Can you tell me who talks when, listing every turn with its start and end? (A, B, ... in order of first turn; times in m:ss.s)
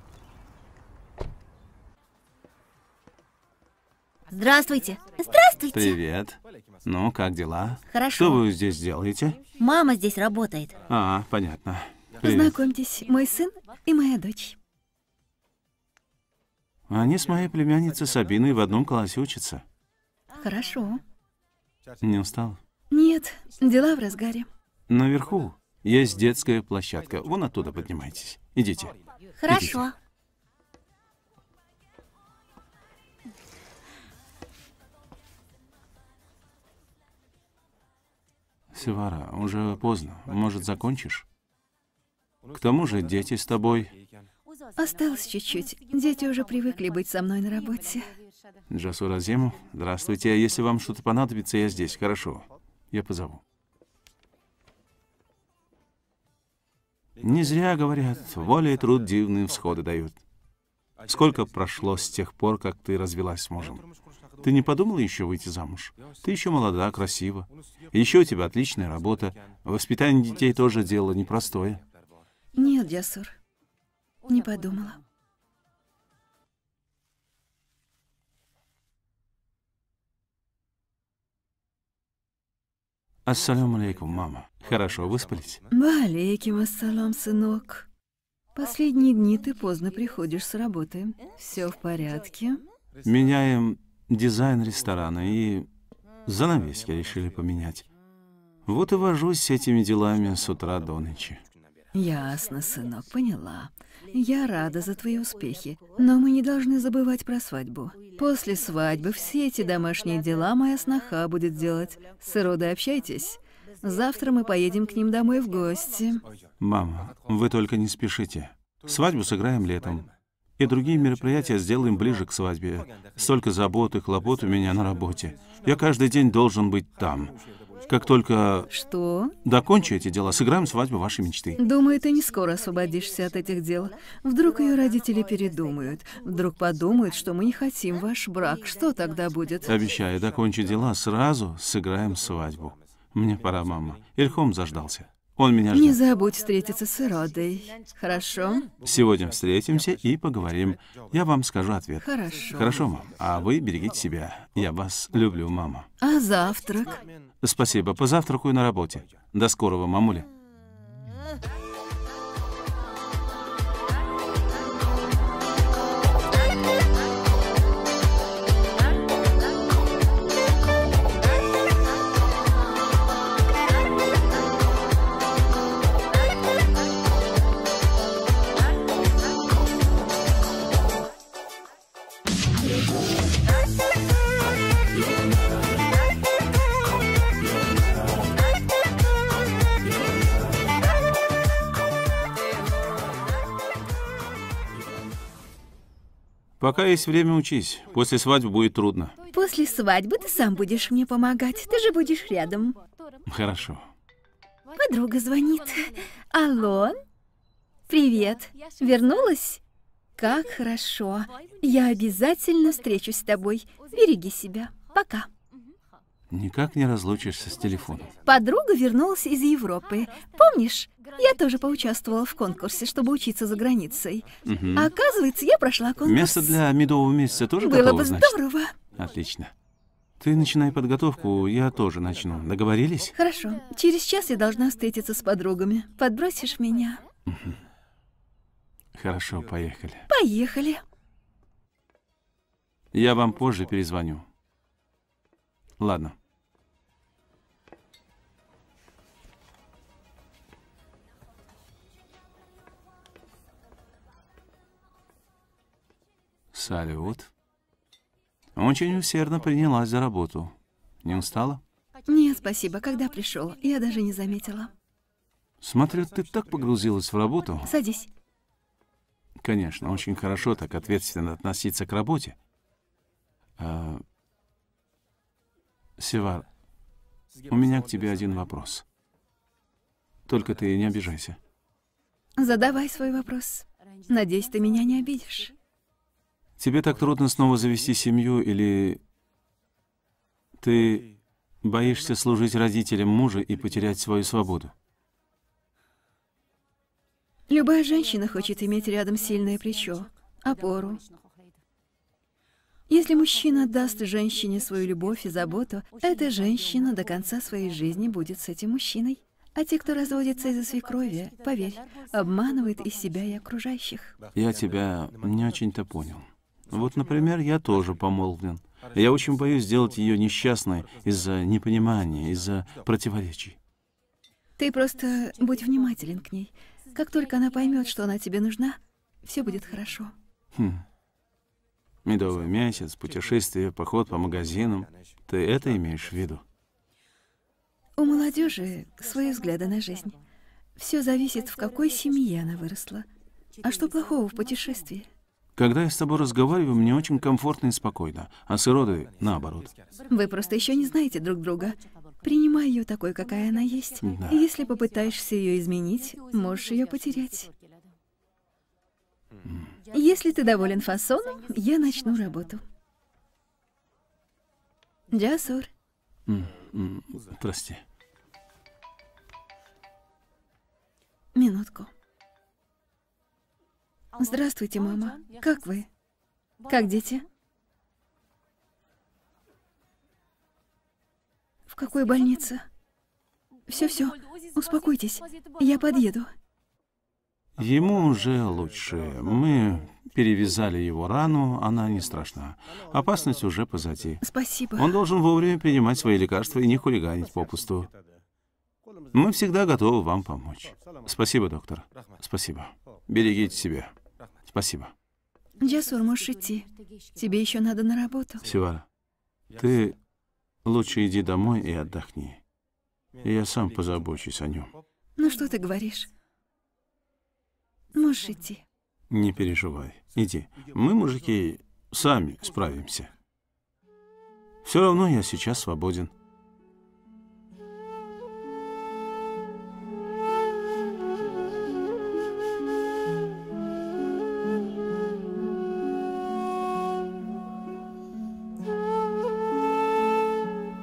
0:04.3-0:06.0 A
0:05.7-0:09.4 B
0:07.9-0:08.4 A
0:09.6-0:10.8 A
0:10.9-0:12.6 B
0:12.2-0:14.6 C
0:16.9-0:19.6 B
0:20.4-0:21.0 C
0:22.0-0:22.6 B
0:22.9-0:24.5 C
0:24.9-0:28.9 B
0:29.4-0:29.9 A
0:29.5-0:29.8 B
0:38.7-0:41.2 B
0:42.5-0:43.9 B
0:44.8-0:48.1 C
0:48.7-0:53.4 B
0:57.2-1:00.2 B
1:01.0-1:03.8 B
1:04.4-1:11.8 B
1:12.5-1:13.4 C
1:14.2-1:15.0 C
1:23.2-1:25.6 B
1:25.7-1:27.9 C
1:28.5-1:32.6 C
1:33.0-1:35.7 B
1:36.2-1:37.8 B
1:38.6-1:41.4 B
1:41.9-1:56.2 C
1:56.6-2:07.4 B
2:07.9-2:08.7 B
2:08.7-2:09.4 C
2:09.4-2:11.6 B
2:11.6-2:19.7 C
2:19.6-2:26.0 B
2:25.7-2:28.7 C
2:28.8-2:35.9 B
2:32.0-2:32.8 C
2:36.0-2:37.0 C
2:37.4-2:40.3 B
3:16.6-3:19.1 B
3:19.3-3:22.8 C
3:23.2-3:23.8 B
3:24.7-3:27.0 C
3:27.9-3:29.6 C
3:30.2-3:35.3 C
3:36.3-3:38.1 B
3:38.2-3:46.6 C
3:44.4-3:44.9 B
3:46.0-3:48.4 B
3:47.6-3:48.8 C
3:48.9-3:49.5 B
3:50.2-3:53.1 B
3:53.1-3:57.0 C
3:57.2-3:57.6 B
3:58.9-4:00.1 B
4:00.1-4:00.8 C
4:02.9-4:04.3 B
4:05.8-4:06.2 B
4:16.5-4:17.3 B
4:18.6-4:21.6 B
4:22.1-4:24.7 C
4:25.6-4:27.7 B
4:27.6-4:28.1 C
4:29.4-4:32.4 B
4:33.6-4:34.0 B
4:36.0-4:36.4 B
4:37.5-4:38.8 B
4:40.3-4:41.4 B
4:42.4-4:45.5 C
4:46.6-4:49.0 B
4:50.6-4:54.7 B
4:57.5-5:01.0 C
5:02.9-5:14.2 C
5:14.3-5:23.6 B
5:24.6-5:30.1 C
5:30.5-5:30.8 B
5:32.0-5:36.4 B
5:38.0-5:40.2 C
5:40.8-5:43.0 C
5:43.6-5:45.1 C
5:45.6-5:49.7 B
5:50.1-5:57.5 C
5:54.0-5:54.4 B
5:59.4-5:59.7 B
5:59.9-6:02.6 C
6:05.1-6:05.7 C
6:06.2-6:07.8 B
6:11.3-6:11.9 C
6:14.2-6:15.9 C
6:16.7-6:17.2 C
6:21.7-6:22.6 C
6:23.7-6:26.3 C
6:27.6-6:34.2 B
6:34.2-6:35.0 C
6:34.8-6:37.9 B
6:39.1-6:43.9 B
6:44.4-6:44.9 B
6:45.6-6:48.4 C
6:48.4-6:48.8 B
6:49.5-6:50.0 B
6:50.6-6:52.4 B
6:53.2-6:54.7 B
6:55.2-6:56.1 C
6:57.9-6:58.6 C
6:59.1-7:03.1 B
7:04.6-7:06.1 B